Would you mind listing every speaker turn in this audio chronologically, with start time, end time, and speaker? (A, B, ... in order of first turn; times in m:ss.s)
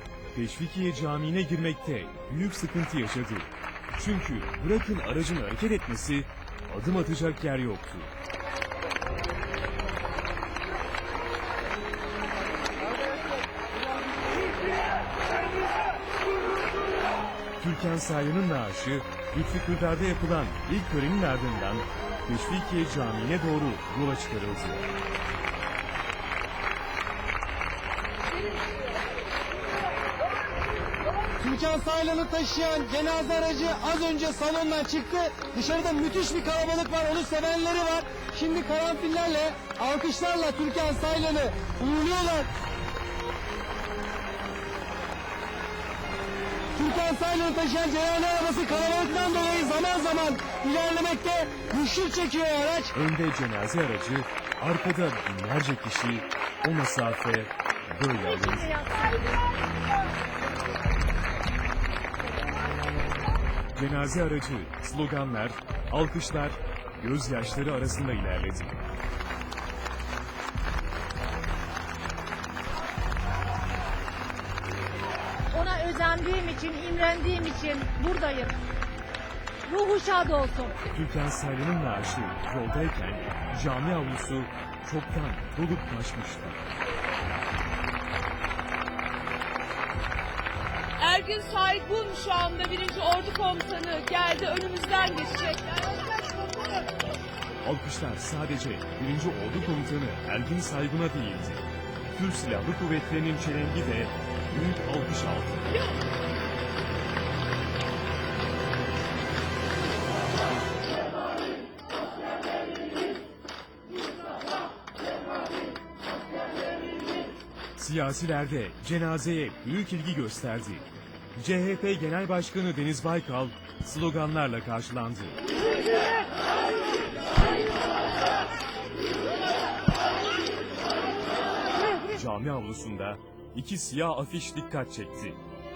0:00.3-0:08.1 A
0:17.6-0:24.9 A
0:31.4-0:42.5 B
0:46.8-0:52.9 B
0:52.9-0:58.8 A
0:58.1-0:59.3 C
1:03.8-1:08.8 A
1:15.5-1:18.6 C
1:19.6-1:20.8 C
1:20.9-1:26.6 A
1:31.0-1:36.0 D
1:37.6-1:45.8 A
1:57.8-2:05.4 A
2:12.1-2:15.4 A